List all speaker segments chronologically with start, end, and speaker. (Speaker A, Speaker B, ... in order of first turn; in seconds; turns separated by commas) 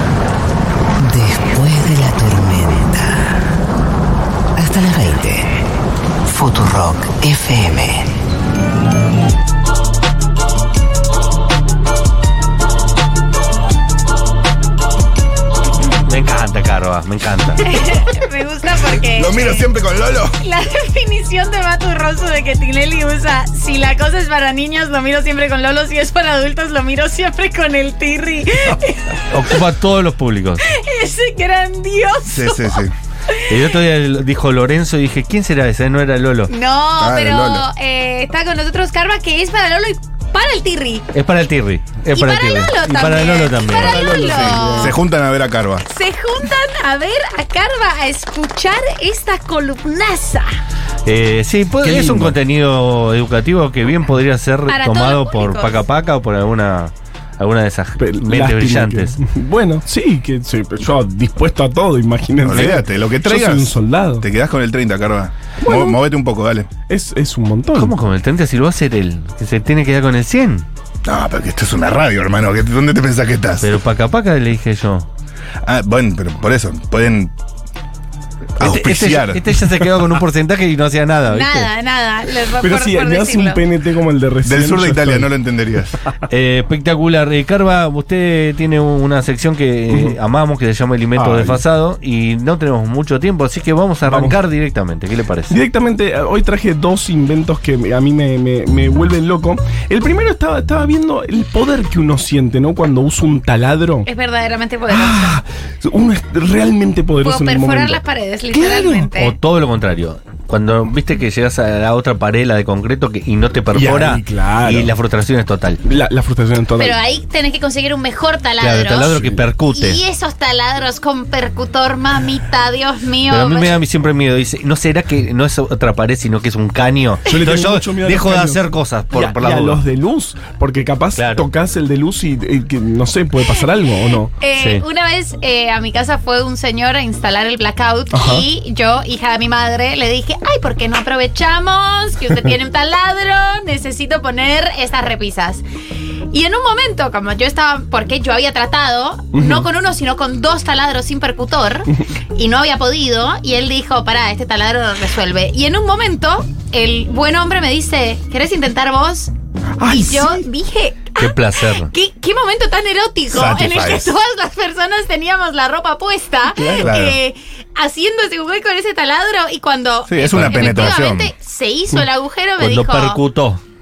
Speaker A: 1.0-3.2, Speaker A: 4.5-5.6, Speaker A: 6.2-8.1, Speaker B: 16.1-17.6, Speaker C: 17.6-19.7, Speaker D: 19.1-20.3, Speaker C: 20.3-29.6, Speaker B: 29.3-30.6, Speaker C: 30.6-33.5, Speaker D: 32.2-32.9, Speaker B: 33.5-36.5, Speaker C: 36.5-41.1, Speaker D: 37.0-37.7, Speaker B: 41.1-44.1, Speaker C: 42.1-45.0, Speaker E: 43.8-45.0, Speaker D: 44.0-45.9, Speaker C: 45.9-50.5, Speaker B: 51.0-59.2, Speaker E: 51.8-52.3, Speaker C: 54.7-55.9, Speaker E: 58.0-64.3, Speaker D: 62.4-66.7, Speaker E: 65.6-66.0, Speaker E: 66.9-68.0, Speaker B: 67.7-70.7, Speaker D: 71.0-73.7, Speaker B: 73.6-75.1, Speaker D: 75.7-77.3, Speaker D: 78.6-79.7, Speaker B: 78.6-81.7, Speaker C: 81.3-83.6, Speaker E: 82.6-85.3, Speaker D: 84.4-86.0, Speaker B: 86.3-95.6, Speaker E: 89.9-90.2, Speaker E: 91.2-91.6, Speaker E: 94.1-94.4, Speaker E: 95.5-104.1, Speaker C: 104.0-105.4, Speaker E: 104.9-109.1, Speaker C: 107.2-109.4, Speaker B: 109.2-115.8, Speaker E: 113.7-114.9, Speaker E: 115.8-117.0, Speaker C: 116.8-119.2, Speaker B: 118.6-120.0, Speaker E: 119.1-119.4, Speaker C: 119.7-123.8, Speaker B: 123.3-129.8, Speaker E: 127.2-134.3, Speaker B: 131.2-131.5, Speaker C: 134.4-145.6, Speaker B: 134.6-134.8, Speaker E: 138.1-138.5, Speaker C: 146.3-159.3, Speaker E: 149.3-149.7, Speaker E: 159.8-160.5, Speaker C: 159.9-173.2, Speaker B: 161.2-161.9, Speaker D: 163.3-164.1, Speaker E: 166.6-167.0, Speaker D: 166.8-167.2, Speaker D: 170.1-171.3, Speaker B: 170.3-170.9, Speaker B: 172.6-173.6